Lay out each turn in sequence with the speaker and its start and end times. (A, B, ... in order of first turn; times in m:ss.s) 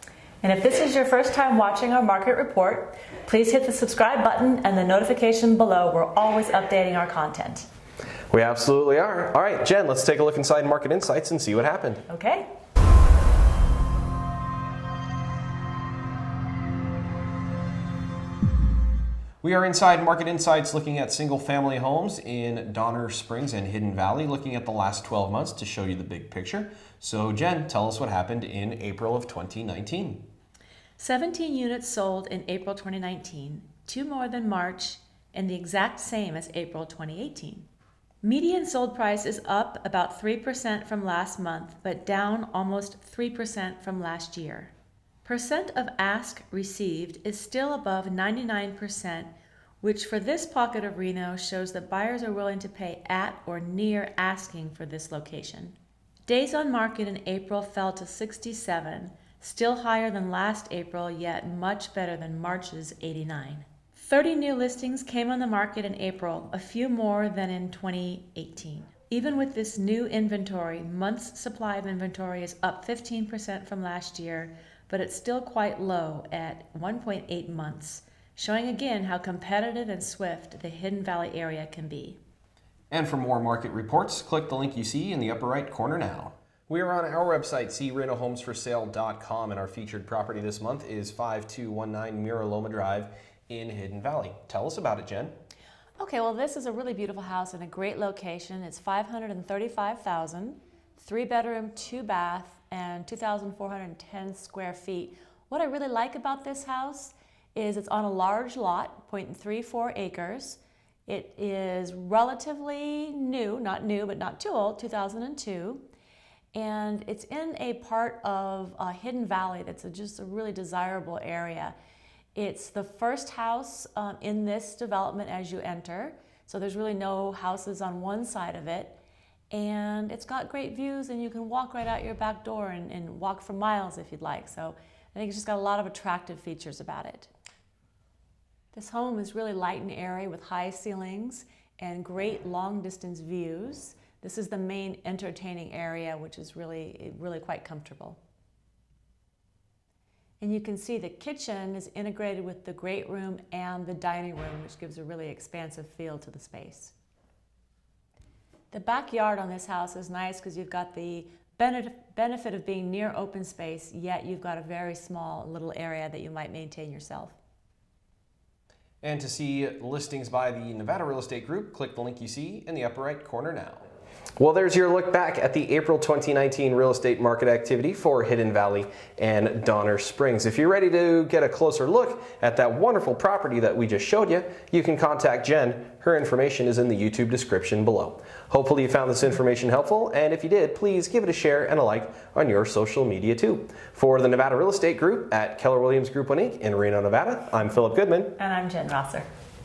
0:00.4-0:07.7 A
0:08.3-0:12.0 B
0:12.1-0:12.5 A
0:19.4-0:30.2 B
0:31.0-0:37.7 A
0:38.2-0:44.7 A
0:45.2-0:49.3 A
0:49.8-0:55.8 A
0:56.3-1:22.2 A
1:22.9-1:35.3 B
1:36.0-1:55.8 A
1:56.5-2:01.8 A
2:02.4-2:09.0 A
2:09.5-2:17.3 A
2:18.7-2:28.2 A
2:30.4-2:36.9 A
2:38.7-2:47.4 A
2:49.0-2:53.8 B
2:54.4-3:18.4 B
3:18.4-3:19.3 A